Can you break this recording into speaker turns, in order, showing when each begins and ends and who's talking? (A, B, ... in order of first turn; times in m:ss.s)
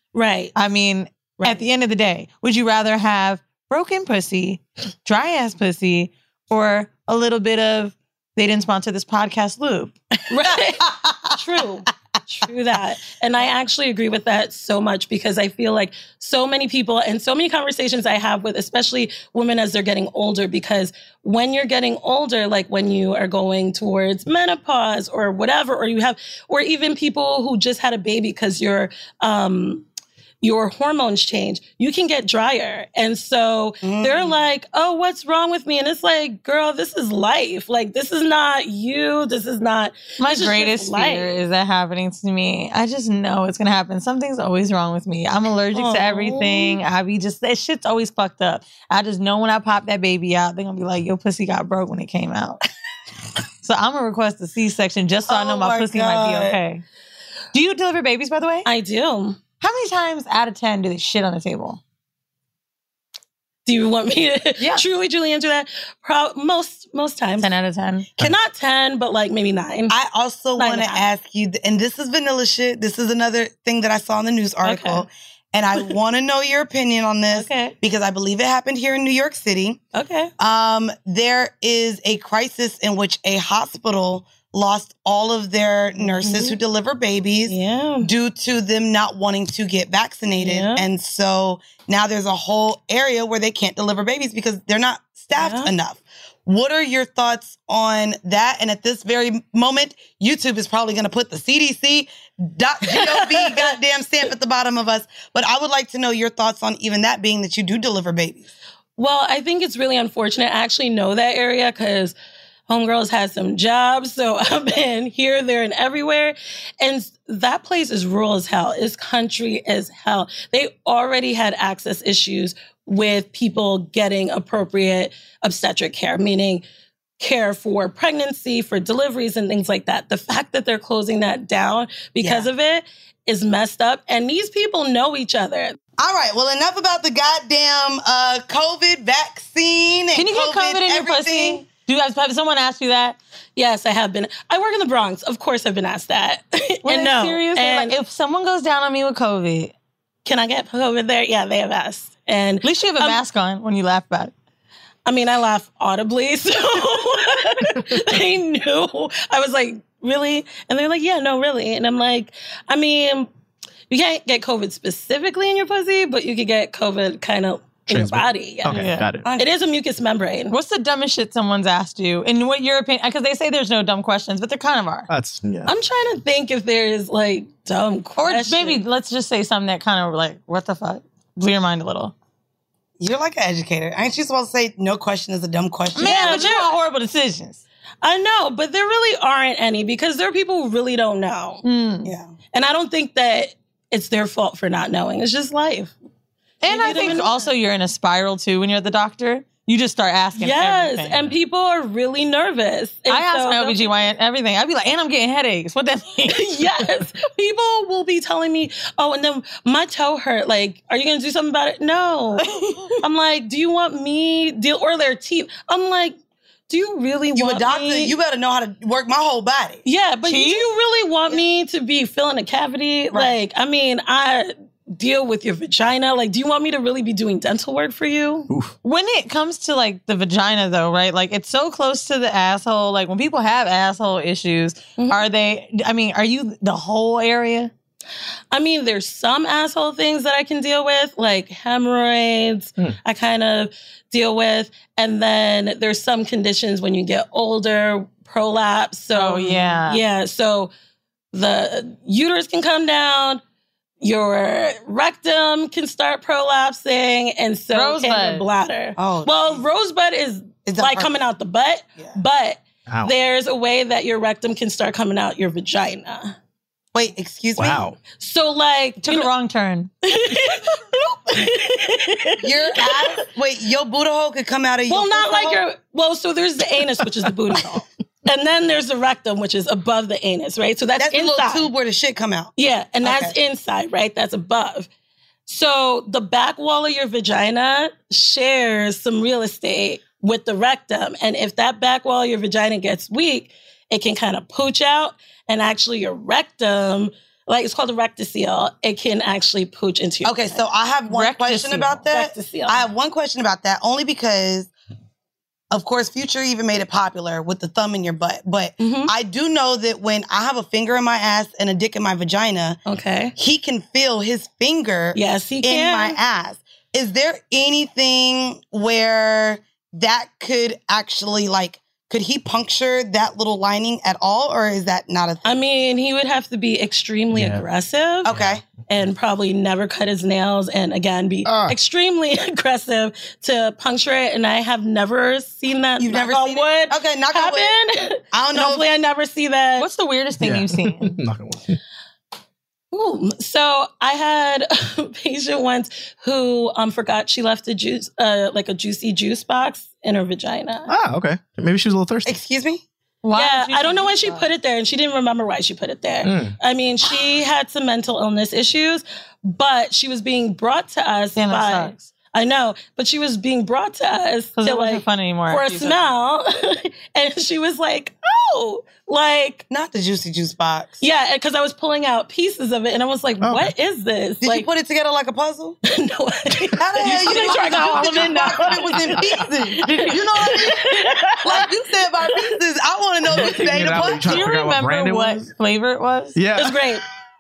0:00.1-0:00.5 A
0:00.6-0:10.0 B
0:10.3-0:29.9 A
0:30.4-0:41.3 A
0:33.8-0:34.4 C
0:40.2-0:52.6 B
0:45.8-0:46.7 C
0:53.6-0:56.8 B
0:55.3-0:56.6 C
0:57.5-0:58.7 B
0:58.6-0:59.4 A
0:59.6-1:01.8 B
1:03.7-1:07.5 A
1:07.4-1:08.1 B
1:08.2-1:10.0 A
1:09.9-1:19.8 C
1:10.6-1:11.1 A
1:14.6-1:15.1 A
1:17.3-1:17.8 A
1:20.0-1:20.3 A
1:20.4-1:48.5 C
1:26.0-1:26.6 A
1:27.5-1:28.1 A
1:30.4-1:30.9 A
1:35.4-1:35.7 A
1:42.9-1:43.8 A
1:49.0-1:52.2 A
1:52.7-2:06.6 A
2:07.2-2:15.8 A
2:12.2-2:12.5 C
2:16.0-2:21.6 C
2:20.2-2:23.2 B
2:23.6-2:28.0 A
2:26.8-2:29.7 B
2:30.2-2:33.2 A
2:32.6-2:34.3 B
2:35.1-2:43.3 A
2:43.9-2:48.8 A
2:47.9-2:49.3 D
2:48.7-2:49.1 B
2:49.2-2:49.5 C
2:49.4-2:50.6 A
2:50.5-2:55.1 B
2:55.1-2:55.7 D
2:55.6-2:58.8 A
2:58.2-3:02.1 B
3:03.0-3:06.5 C
3:06.0-3:07.6 B
3:06.0-3:06.7 A
3:08.0-3:11.6 A
3:11.6-3:12.1 B
3:12.0-3:12.3 C
3:12.5-3:15.9 A
3:16.6-3:21.2 B
3:16.7-3:17.5 A
3:20.4-3:23.9 A
3:23.1-3:26.6 B
3:26.3-3:32.5 A
3:32.4-3:32.9 B
3:33.0-3:36.2 A
3:36.7-3:38.2 A
3:37.4-3:39.8 C
3:39.8-3:48.5 A
3:40.3-3:40.7 B
3:48.8-3:57.7 B
3:55.0-3:55.2 A
3:58.5-4:10.7 A
4:09.1-4:10.0 B
4:11.3-4:13.4 A
4:14.0-4:26.4 A
4:17.7-4:18.4 B
4:19.0-4:19.6 C
4:20.7-4:21.2 C
4:22.9-4:23.1 D
4:26.9-4:27.9 C
4:27.6-4:28.0 D
4:28.2-4:29.3 A
4:29.0-4:29.9 B
4:30.1-4:33.2 A
4:32.4-4:35.6 C
4:34.9-4:41.7 A
4:41.0-4:42.5 C
4:42.6-4:44.9 A
4:43.0-4:43.3 C
4:45.5-5:00.6 A
5:00.2-5:04.7 C
5:01.1-5:02.0 B
5:02.1-5:02.8 A
5:05.7-5:12.8 C
5:08.8-5:09.1 A
5:12.9-5:13.3 A
5:13.4-5:25.5 C
5:15.2-5:16.2 A
5:25.4-5:28.3 A
5:27.3-5:27.6 D
5:28.3-5:28.6 C
5:28.3-5:28.6 D
5:28.9-5:39.9 A
5:31.5-5:31.8 D
5:36.0-5:37.8 C
5:38.3-5:38.9 C
5:39.8-5:41.2 B
5:40.4-5:41.8 D
5:42.9-5:50.9 A
5:50.9-5:52.4 D
5:52.3-5:52.8 C
5:53.2-5:54.5 B
5:53.4-6:09.6 A
5:56.2-5:56.6 D
6:01.4-6:02.0 B
6:04.6-6:06.1 B
6:09.7-6:11.0 C
6:11.0-6:14.7 A
6:13.4-6:13.7 D
6:14.4-6:15.8 C
6:15.9-6:22.6 A
6:16.8-6:20.8 C
6:17.3-6:17.8 B
6:19.8-6:20.5 B
6:21.4-6:24.4 C
6:23.3-6:25.5 D
6:23.4-6:24.1 A
6:24.3-6:26.4 B
6:26.4-6:26.8 D
6:26.6-6:27.0 A